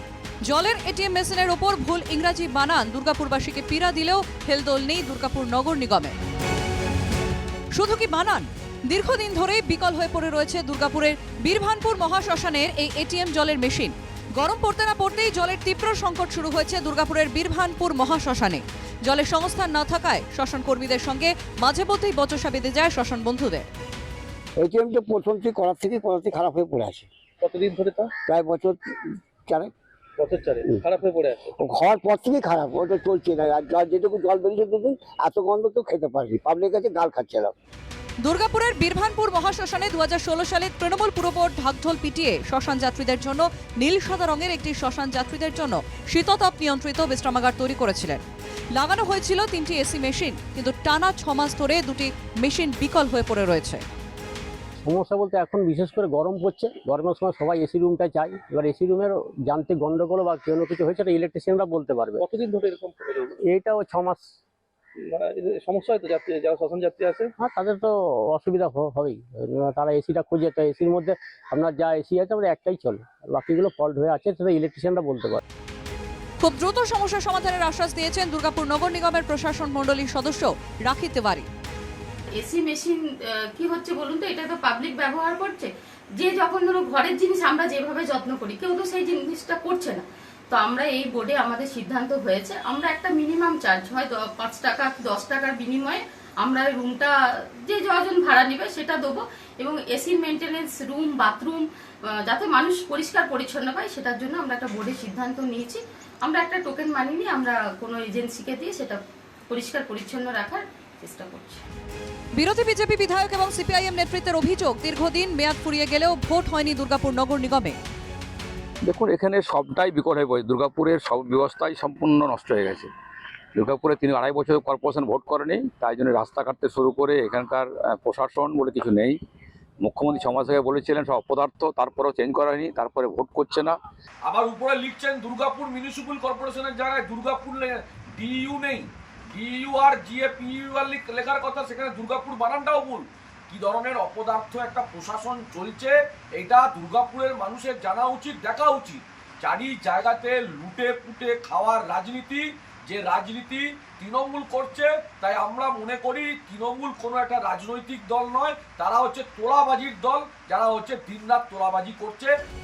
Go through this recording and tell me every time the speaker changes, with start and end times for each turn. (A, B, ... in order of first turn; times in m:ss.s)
0:00.4-0:06.1 A
0:07.7-0:23.7 A
0:24.6-0:27.1 B
0:27.4-0:28.1 C
0:28.2-0:29.7 B
0:30.2-0:31.5 C
0:31.6-0:37.5 B
0:38.2-0:48.2 A
0:48.7-0:53.8 A
0:54.8-1:02.2 D
1:02.2-1:03.4 C
1:03.4-1:04.2 D
1:05.1-1:07.3 C
1:07.4-1:15.4 D
1:16.4-1:21.5 A
1:22.4-1:37.1 E
1:37.6-1:51.6 E
1:52.4-1:57.8 A
1:58.9-2:02.9 F
2:03.6-2:09.2 F
2:09.8-2:13.8 F
2:14.2-2:42.3 G